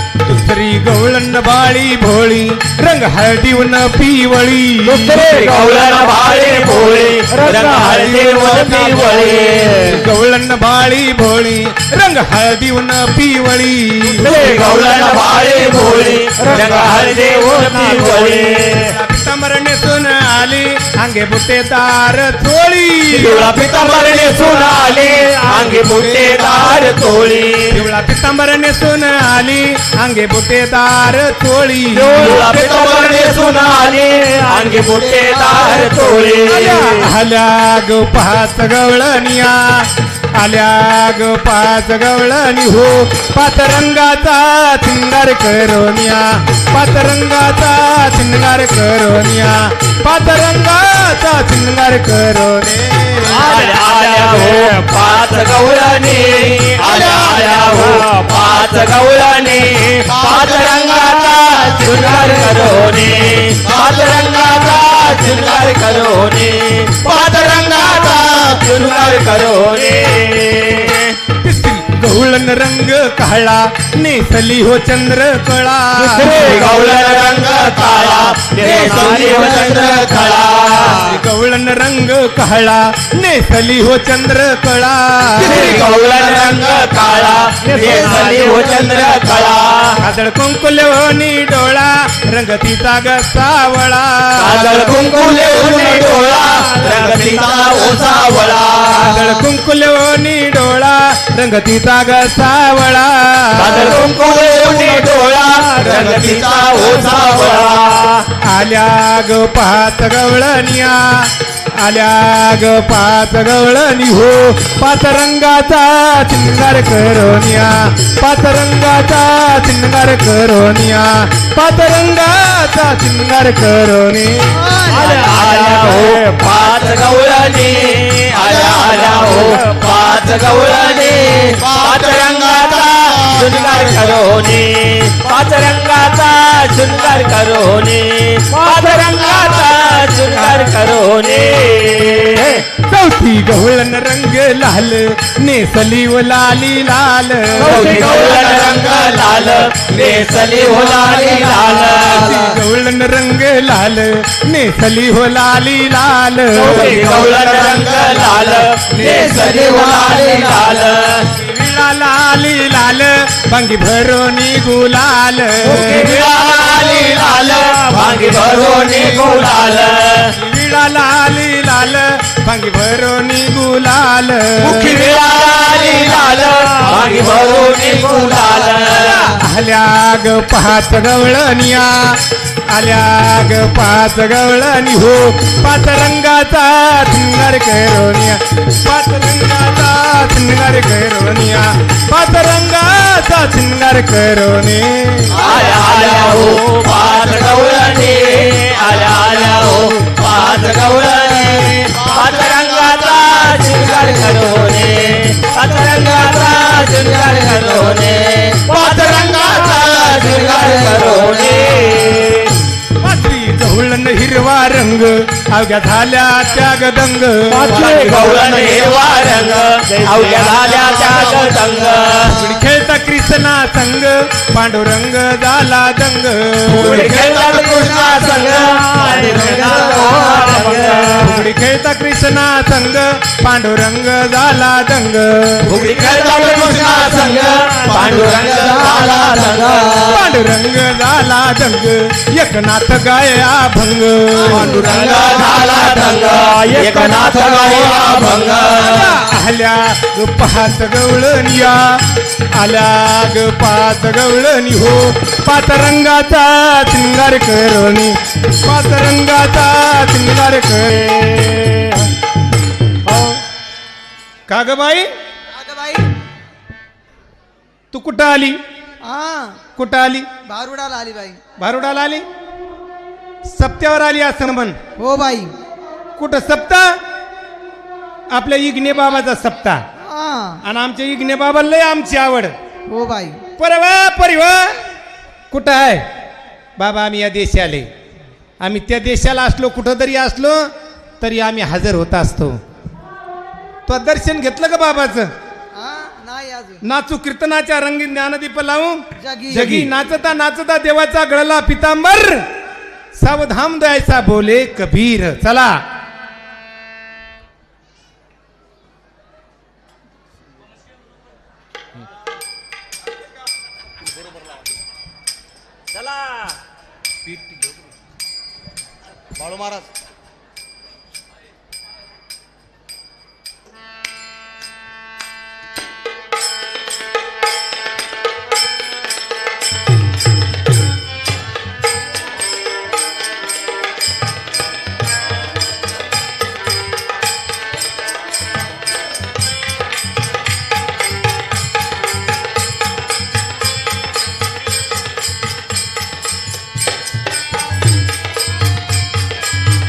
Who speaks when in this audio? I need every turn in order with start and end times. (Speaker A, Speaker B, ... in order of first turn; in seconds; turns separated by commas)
Speaker A: 0.2-5.5, Speaker B: 4.9-10.0, Speaker C: 7.5-9.7, Speaker A: 9.8-14.4, Speaker B: 14.2-18.9, Speaker A: 16.5-17.1, Speaker A: 18.5-23.4, Speaker B: 23.1-27.8, Speaker C: 23.7-24.6, Speaker C: 25.5-26.9, Speaker A: 27.7-32.4, Speaker B: 31.9-37.1, Speaker C: 32.2-33.9, Speaker C: 35.0-36.2, Speaker A: 36.5-53.4, Speaker B: 53.2-71.2, Speaker C: 56.8-58.0, Speaker C: 60.0-62.8, Speaker C: 63.6-65.3, Speaker C: 67.0-68.7, Speaker A: 71.3-76.7, Speaker B: 76.0-81.1, Speaker C: 77.6-81.0, Speaker A: 80.9-85.8, Speaker B: 85.4-90.0, Speaker C: 85.4-89.6, Speaker A: 90.0-94.8, Speaker B: 94.4-99.2, Speaker C: 94.6-99.1, Speaker A: 99.0-104.0, Speaker B: 103.5-108.2, Speaker C: 104.0-105.1, Speaker C: 105.7-108.0, Speaker A: 108.4-124.5, Speaker D: 124.5-125.5, Speaker B: 124.9-142.7, Speaker C: 128.3-129.6, Speaker C: 131.6-134.4, Speaker A: 142.7-148.0, Speaker B: 147.6-152.4, Speaker C: 147.7-152.1, Speaker A: 152.0-157.0, Speaker B: 156.5-161.3, Speaker C: 156.6-160.9, Speaker D: 159.4-160.0, Speaker A: 161.3-166.2, Speaker B: 165.6-170.3, Speaker C: 166.7-168.2, Speaker A: 170.3-174.9, Speaker B: 174.6-179.3, Speaker C: 175.6-178.6, Speaker A: 178.9-195.4, Speaker C: 195.3-197.7, Speaker B: 195.4-212.6, Speaker C: 198.9-199.8, Speaker C: 201.9-203.8, Speaker C: 208.7-210.3, Speaker A: 213.0-218.2, Speaker B: 217.5-222.4, Speaker C: 218.3-219.2, Speaker C: 220.1-222.5, Speaker A: 222.3-227.0, Speaker C: 226.7-230.4, Speaker B: 226.7-231.4, Speaker D: 229.2-230.6, Speaker A: 231.2-235.7, Speaker B: 235.7-240.2, Speaker C: 235.7-239.9, Speaker A: 240.1-244.8, Speaker C: 244.4-248.9, Speaker B: 244.7-249.1, Speaker A: 248.7-261.3, Speaker B: 261.3-262.1, Speaker B: 263.1-263.4, Speaker A: 264.5-265.1, Speaker D: 265.5-266.1, Speaker A: 267.9-268.6, Speaker D: 269.0-269.6, Speaker A: 269.8-270.3, Speaker D: 270.4-271.4, Speaker A: 271.6-272.2, Speaker A: 273.5-274.8, Speaker D: 275.0-275.5, Speaker A: 276.2-277.0, Speaker A: 278.3-279.8, Speaker D: 280.0-280.6, Speaker A: 280.6-282.5, Speaker D: 282.9-283.4, Speaker A: 283.6-284.9, Speaker A: 285.5-286.1, Speaker A: 286.8-287.9, Speaker A: 288.6-290.7, Speaker A: 291.2-292.6, Speaker A: 293.9-295.3, Speaker D: 295.7-296.8, Speaker A: 296.8-302.4, Speaker D: 299.2-299.6, Speaker C: 299.5-299.9, Speaker A: 303.2-305.8, Speaker C: 319.4-319.9